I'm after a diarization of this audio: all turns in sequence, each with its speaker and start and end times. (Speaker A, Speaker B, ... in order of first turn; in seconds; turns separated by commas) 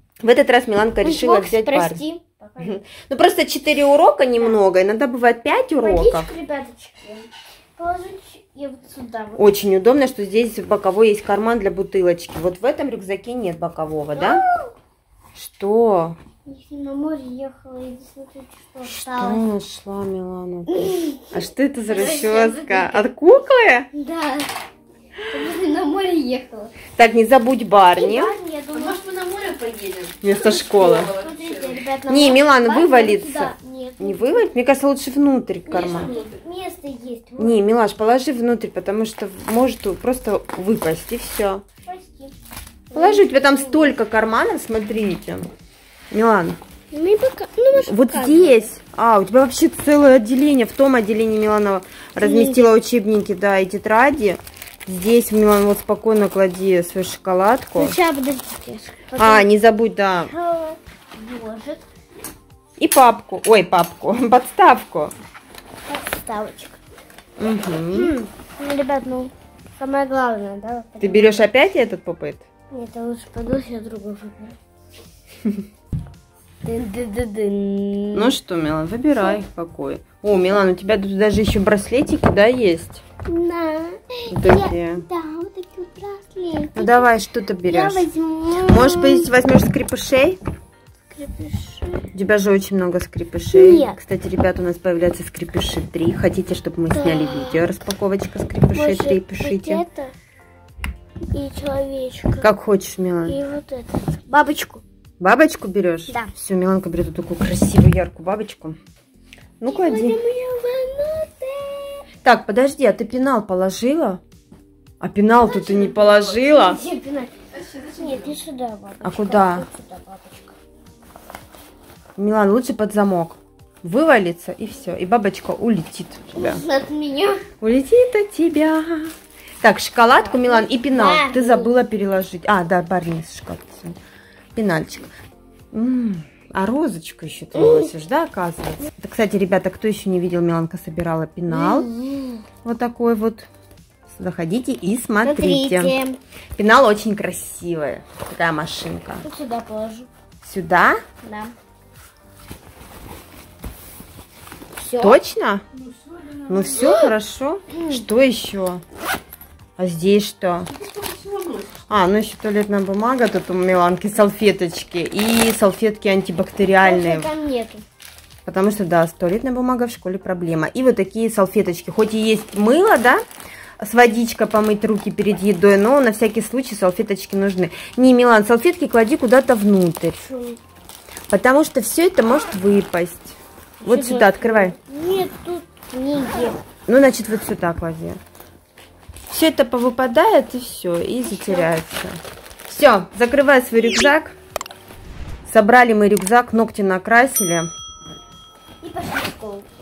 Speaker A: 0.2-2.0, Speaker B: 1.0-2.8, Speaker A: 2.6-6.3, Speaker B: 5.8-9.4, Speaker A: 9.4-14.4, Speaker B: 14.1-14.7, Speaker A: 15.3-16.2, Speaker B: 16.4-19.4, Speaker A: 19.0-23.9, Speaker B: 20.7-23.1, Speaker B: 23.9-24.5, Speaker B: 25.3-26.8, Speaker A: 26.9-28.4, Speaker B: 27.9-29.0, Speaker C: 28.7-31.9, Speaker A: 30.2-31.1, Speaker B: 30.9-34.5, Speaker A: 32.1-36.1, Speaker B: 35.7-37.6, Speaker C: 35.7-36.4, Speaker A: 37.4-41.6, Speaker B: 41.8-42.3, Speaker B: 42.9-44.0, Speaker A: 42.9-45.5, Speaker A: 46.1-46.6, Speaker B: 46.9-48.7, Speaker A: 47.7-58.0, Speaker B: 52.2-52.6, Speaker B: 57.8-59.5, Speaker A: 59.1-60.3, Speaker B: 60.2-61.9, Speaker A: 62.8-65.1, Speaker B: 65.8-66.8, Speaker A: 67.4-68.3, Speaker B: 67.9-71.4, Speaker A: 71.0-72.4, Speaker B: 72.7-74.5, Speaker B: 76.6-78.3, Speaker A: 78.1-83.0, Speaker B: 83.3-87.1, Speaker A: 84.3-85.0, Speaker A: 86.7-88.1, Speaker B: 87.6-89.3, Speaker A: 88.6-90.4, Speaker B: 91.1-92.1, Speaker A: 92.1-99.8, Speaker B: 93.5-94.0, Speaker B: 96.9-97.6, Speaker B: 98.7-100.1, Speaker B: 101.3-102.5, Speaker A: 102.4-103.4, Speaker B: 103.2-104.8, Speaker A: 105.2-108.8, Speaker A: 109.6-110.2, Speaker B: 109.7-112.0, Speaker A: 112.2-114.2, Speaker A: 115.0-116.8, Speaker B: 115.4-117.3, Speaker C: 117.5-118.4, Speaker B: 118.0-120.6, Speaker A: 119.0-119.7, Speaker A: 122.2-126.6, Speaker B: 126.3-127.4, Speaker A: 127.6-134.0, Speaker B: 130.2-131.7, Speaker A: 134.5-135.1, Speaker A: 135.7-141.9, Speaker B: 137.5-137.9, Speaker B: 141.5-142.4, Speaker A: 142.6-143.5, Speaker A: 144.1-145.9, Speaker B: 145.2-146.2, Speaker A: 146.6-149.2, Speaker B: 149.2-150.1, Speaker A: 150.4-151.0, Speaker B: 151.2-151.5, Speaker B: 154.8-155.2, Speaker A: 155.0-155.6, Speaker C: 155.7-156.9, Speaker A: 156.5-158.8, Speaker B: 156.7-157.1, Speaker B: 157.7-158.0, Speaker A: 159.8-160.7, Speaker C: 160.7-161.8, Speaker A: 161.9-167.3, Speaker B: 166.8-167.8, Speaker A: 168.4-173.2, Speaker A: 173.8-180.2, Speaker B: 180.2-180.6, Speaker A: 181.3-184.7, Speaker B: 183.8-186.6, Speaker A: 186.9-188.2, Speaker A: 189.3-194.3, Speaker B: 191.2-191.7, Speaker A: 195.4-197.7, Speaker B: 198.8-199.7